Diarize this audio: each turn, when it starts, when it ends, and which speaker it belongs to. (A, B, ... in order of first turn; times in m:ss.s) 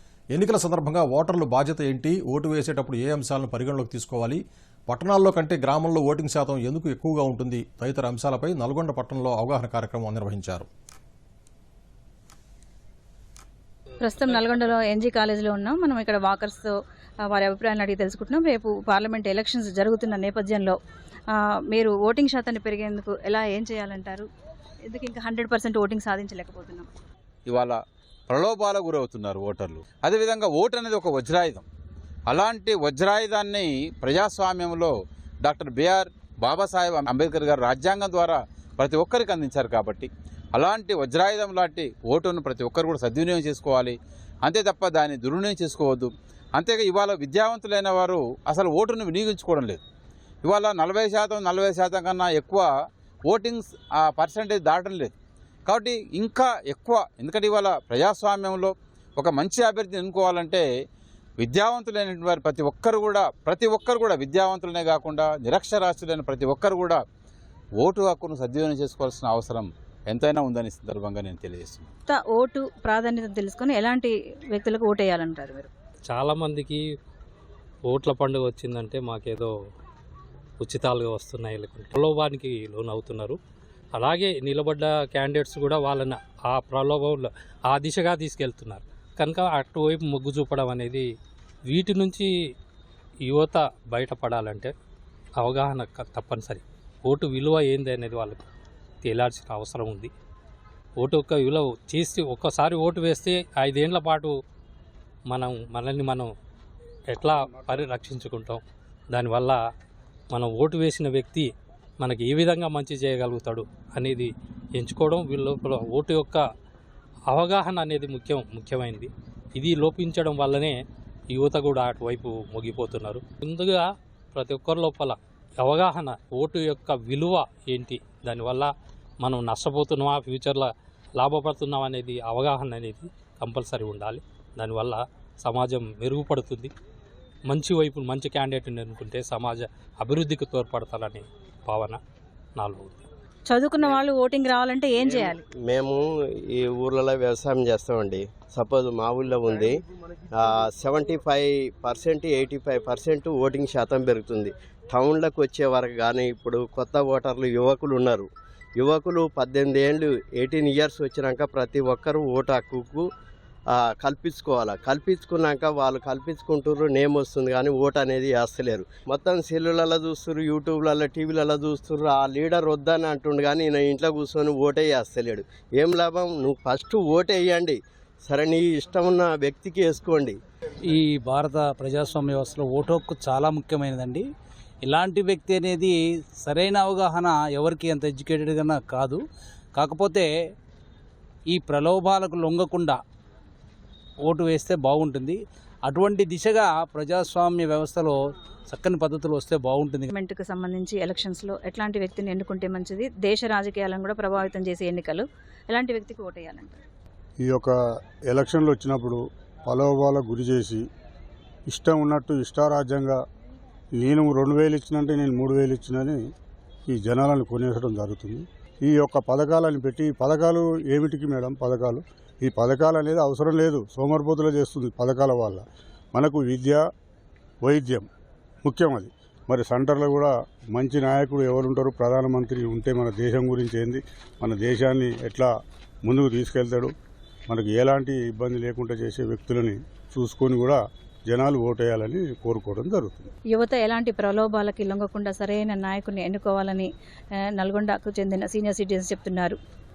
0:00.3-0:10.7 A
0:14.0-0:16.7 B
0:17.3-0:20.8 B
0:21.7-0:24.3 B
0:24.9-0:26.9 B
0:27.5-0:27.8 C
0:28.3-0:31.6 C
0:32.3-0:34.9 C
0:35.4-0:49.8 C
0:50.4-0:52.7 C
0:53.3-0:55.1 C
0:55.7-1:00.6 C
1:01.4-1:07.0 C
1:07.8-1:11.9 C
1:12.1-1:15.7 B
1:16.1-1:16.8 D
1:17.9-1:19.5 D
1:20.6-1:23.4 D
1:24.0-1:31.1 D
1:31.7-1:32.3 D
1:33.3-1:34.7 D
1:35.4-1:38.4 D
1:39.0-1:40.1 D
1:41.0-1:44.3 D
1:45.3-1:46.3 D
1:47.1-1:49.6 D
1:50.3-1:51.5 D
1:52.0-1:56.4 D
1:57.3-2:00.8 D
2:01.3-2:08.7 D
2:09.2-2:16.7 D
2:17.5-2:22.0 D
2:22.6-2:23.0 D
2:23.5-2:25.4 B
2:25.0-2:29.8 E
2:30.3-2:43.1 E
2:43.7-3:00.4 E
3:00.9-3:04.2 F
3:04.8-3:09.2 F
3:09.7-3:10.3 F
3:11.5-3:13.0 F
3:14.2-3:18.2 F
3:18.7-3:20.1 F
3:20.1-3:26.8 B
3:27.4-3:27.8 G
3:28.3-3:30.8 G
3:31.7-3:33.2 G
3:34.0-3:36.2 G
3:36.9-3:46.8 G
3:47.6-3:48.1 G
3:48.6-3:55.5 G
3:56.0-3:56.9 G
3:57.5-4:03.3 G
4:03.6-4:06.9 B
4:07.6-4:09.6 B